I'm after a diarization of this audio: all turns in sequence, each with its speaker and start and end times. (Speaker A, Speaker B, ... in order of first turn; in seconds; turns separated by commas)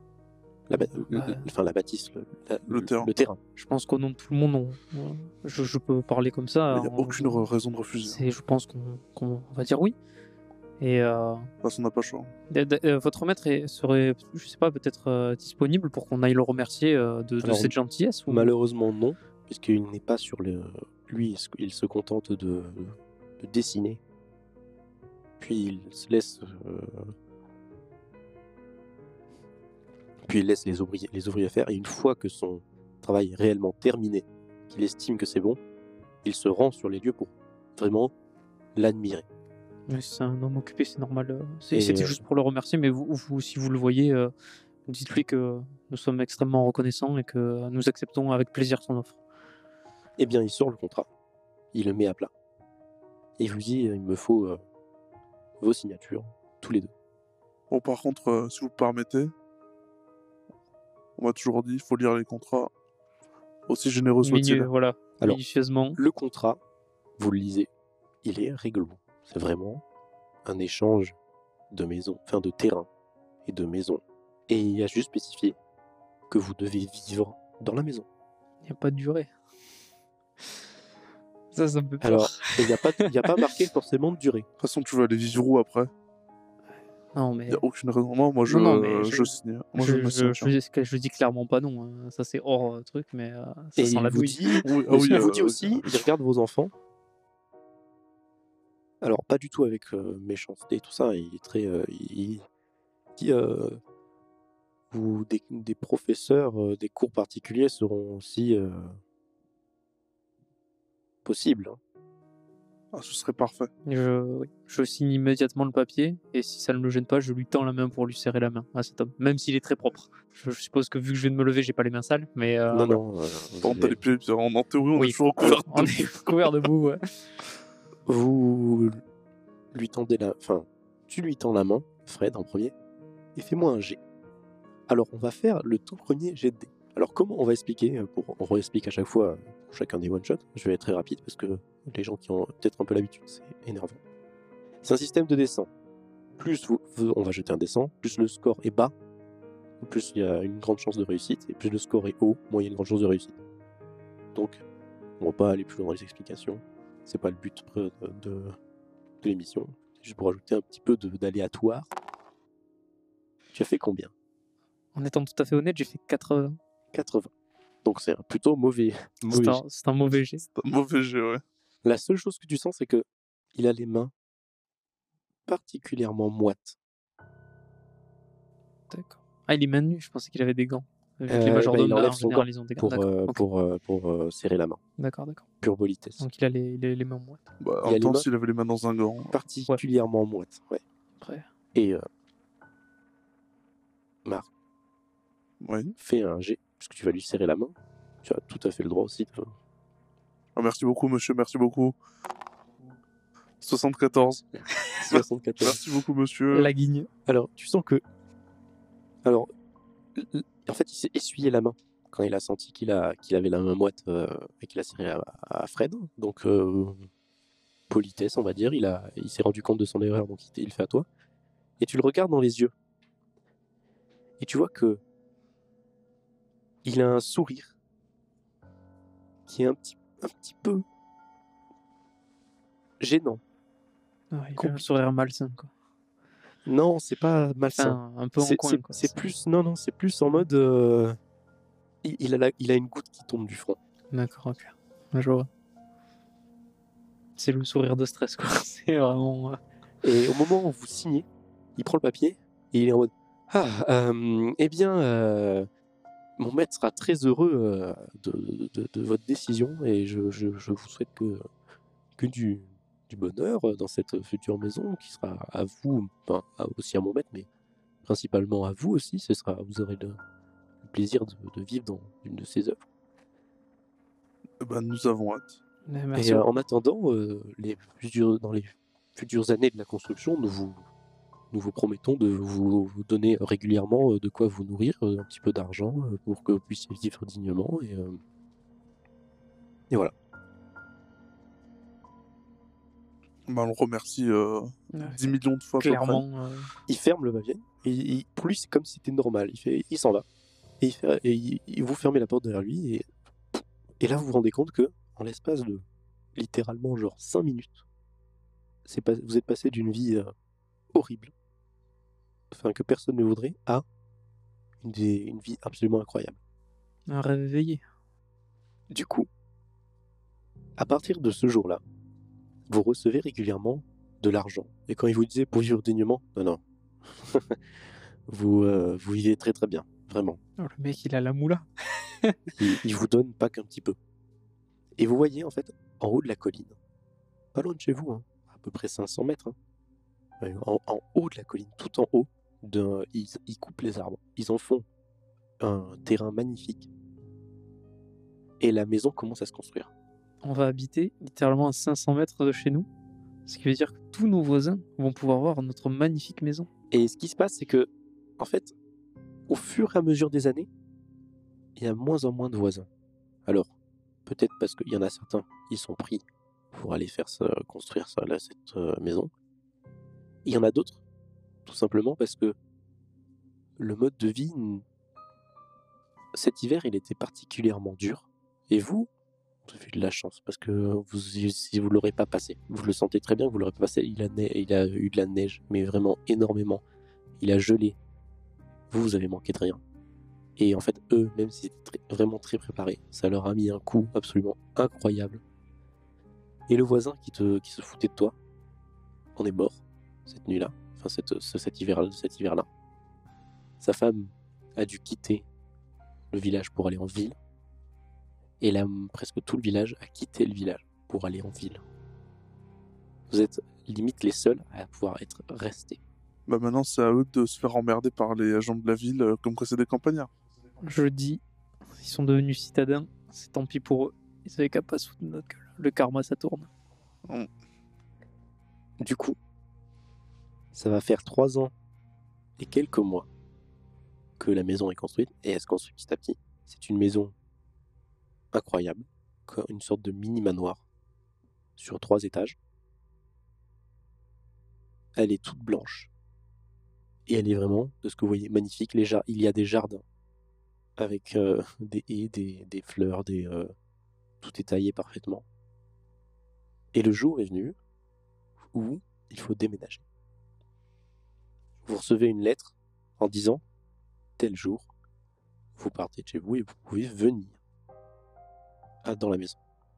Speaker A: 0.7-3.4, Speaker B: 1.1-1.5, Speaker C: 2.7-3.1, Speaker B: 3.6-7.5, Speaker C: 6.7-8.2, Speaker B: 8.0-10.0, Speaker B: 10.8-11.5, Speaker C: 11.6-12.3, Speaker B: 12.5-18.5, Speaker A: 17.4-17.8, Speaker A: 18.3-24.0, Speaker A: 25.4-27.1, Speaker A: 30.2-35.6, Speaker A: 36.2-38.1, Speaker A: 38.8-39.2, Speaker B: 39.9-44.3, Speaker A: 41.7-42.2, Speaker B: 44.9-49.2, Speaker A: 50.2-51.1, Speaker A: 51.7-52.3, Speaker A: 53.4-54.6, Speaker A: 55.6-56.9, Speaker C: 57.7-59.3, Speaker C: 61.2-62.7, Speaker C: 63.7-64.7, Speaker B: 64.2-66.0, Speaker A: 66.0-66.6, Speaker A: 67.2-67.7, Speaker A: 68.2-69.8, Speaker A: 70.5-71.2, Speaker A: 71.7-72.9, Speaker A: 73.5-75.6, Speaker A: 76.3-78.1, Speaker B: 78.6-79.3, Speaker B: 81.5-83.5, Speaker A: 82.0-84.5, Speaker C: 84.6-85.9, Speaker B: 87.1-87.6, Speaker C: 87.5-90.5, Speaker B: 88.5-95.3, Speaker A: 93.8-96.7, Speaker C: 94.6-96.0, Speaker A: 99.0-102.5, Speaker A: 103.2-103.8, Speaker A: 104.9-109.0, Speaker A: 111.2-111.8, Speaker C: 112.9-113.7, Speaker B: 113.9-123.0, Speaker A: 122.7-124.0, Speaker C: 123.6-126.5, Speaker B: 125.0-127.0, Speaker A: 128.1-129.0, Speaker A: 129.7-132.7, Speaker A: 133.3-134.0, Speaker A: 134.9-144.0, Speaker A: 144.8-145.7, Speaker A: 146.4-148.9, Speaker A: 149.8-153.4, Speaker A: 154.3-154.6, Speaker A: 155.2-158.6, Speaker A: 159.2-161.9, Speaker A: 163.5-164.1, Speaker B: 164.9-166.6, Speaker A: 166.9-167.3, Speaker A: 167.8-169.6, Speaker B: 169.3-170.5, Speaker C: 170.6-171.4, Speaker A: 171.8-174.1, Speaker A: 175.5-176.8, Speaker B: 178.9-183.4, Speaker A: 181.3-184.8, Speaker B: 185.0-185.4, Speaker A: 185.6-186.2, Speaker B: 186.2-187.4, Speaker C: 187.6-189.3, Speaker A: 187.8-188.3, Speaker A: 189.3-190.8, Speaker B: 191.2-191.5, Speaker A: 191.7-192.1, Speaker C: 195.6-195.9, Speaker A: 196.0-199.5, Speaker C: 200.6-202.0, Speaker C: 203.6-204.5, Speaker A: 205.0-205.8, Speaker C: 205.1-206.7, Speaker B: 206.5-207.1, Speaker A: 207.3-208.0, Speaker A: 209.2-209.5, Speaker A: 210.2-217.1, Speaker A: 217.9-221.1, Speaker A: 221.8-222.7, Speaker A: 224.4-225.0, Speaker A: 226.8-227.8, Speaker A: 229.5-230.8, Speaker A: 233.0-233.4, Speaker B: 234.3-235.7, Speaker A: 234.6-234.8, Speaker A: 236.7-241.2, Speaker B: 237.7-239.3, Speaker A: 242.0-243.8, Speaker B: 244.1-245.5, Speaker B: 247.4-249.6, Speaker A: 250.0-251.3, Speaker A: 251.8-255.7, Speaker A: 256.4-261.4, Speaker A: 262.2-267.5, Speaker A: 268.1-270.2, Speaker A: 270.8-272.8, Speaker C: 274.6-275.6, Speaker B: 275.9-276.5, Speaker A: 276.1-280.8, Speaker A: 281.5-288.2, Speaker C: 293.5-296.2, Speaker B: 294.9-295.2, Speaker B: 295.8-296.7, Speaker A: 296.9-300.2, Speaker A: 300.8-305.8, Speaker A: 306.4-307.8, Speaker A: 308.9-310.3, Speaker A: 310.9-311.3, Speaker A: 312.5-313.8, Speaker A: 314.8-316.4, Speaker B: 317.1-317.8, Speaker A: 318.9-319.3, Speaker A: 320.8-321.8, Speaker A: 322.7-327.6, Speaker A: 328.3-330.4, Speaker B: 330.6-332.5, Speaker A: 332.6-334.0, Speaker A: 335.0-336.8, Speaker A: 337.5-339.6, Speaker A: 340.4-344.9, Speaker A: 345.6-346.9, Speaker A: 348.6-349.9, Speaker B: 350.4-352.9, Speaker B: 353.5-356.7, Speaker A: 356.9-358.7, Speaker A: 359.5-360.7, Speaker A: 361.8-362.9, Speaker A: 364.3-369.3, Speaker A: 370.4-371.0, Speaker A: 371.6-372.6, Speaker A: 373.8-374.8, Speaker A: 376.3-379.1, Speaker A: 379.6-386.8, Speaker A: 387.4-388.0, Speaker A: 388.9-389.8, Speaker A: 390.6-395.4, Speaker A: 396.7-398.4, Speaker A: 399.4-402.7, Speaker A: 403.8-405.5, Speaker A: 406.3-407.4, Speaker A: 408.6-411.8, Speaker A: 413.3-416.0, Speaker C: 416.5-420.3, Speaker B: 420.8-421.4, Speaker B: 422.0-426.7, Speaker A: 429.0-429.4, Speaker A: 430.7-431.7, Speaker A: 432.6-433.3, Speaker A: 434.4-437.4, Speaker A: 438.5-440.8, Speaker A: 441.8-442.6, Speaker A: 445.2-446.1, Speaker A: 447.3-450.0, Speaker A: 451.0-453.7, Speaker A: 454.4-455.5, Speaker A: 456.9-457.8, Speaker A: 458.7-460.0, Speaker A: 461.9-463.6, Speaker A: 464.4-464.9, Speaker A: 465.8-467.6, Speaker A: 469.0-469.6